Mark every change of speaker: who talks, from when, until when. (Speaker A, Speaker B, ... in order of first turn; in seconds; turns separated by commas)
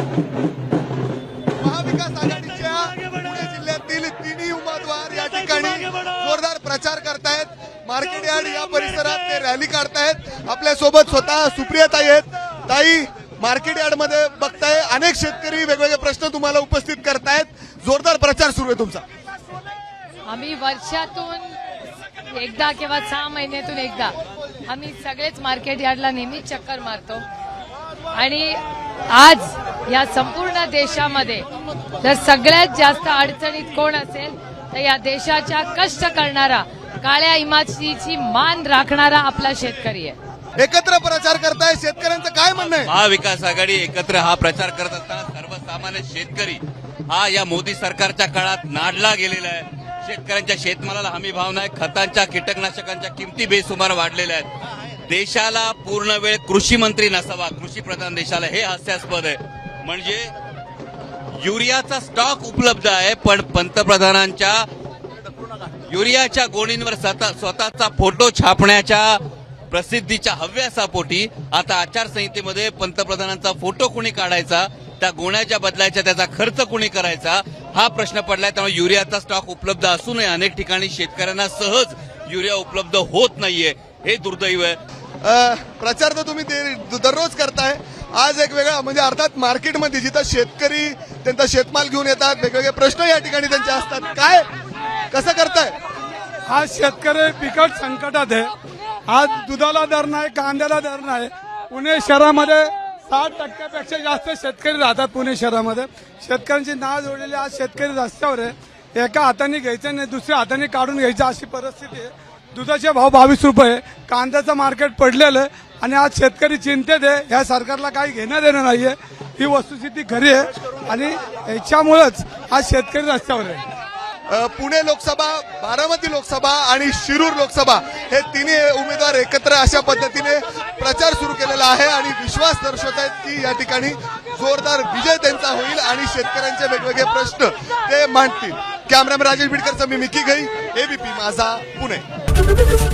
Speaker A: 1.6-19.0, Speaker B: 20.3-21.5, Speaker B: 22.3-24.1, Speaker B: 24.7-27.2, Speaker B: 28.1-28.6, Speaker B: 29.1-31.4, Speaker B: 32.0-40.2, Speaker A: 40.6-42.9, Speaker C: 42.8-54.5, Speaker C: 55.1-60.3, Speaker C: 61.4-64.7, Speaker C: 65.9-84.8, Speaker A: 85.2-94.5, Speaker A: 95.1-95.8, Speaker D: 96.5-98.5, Speaker D: 99.1-123.6, Speaker A: 124.3-142.0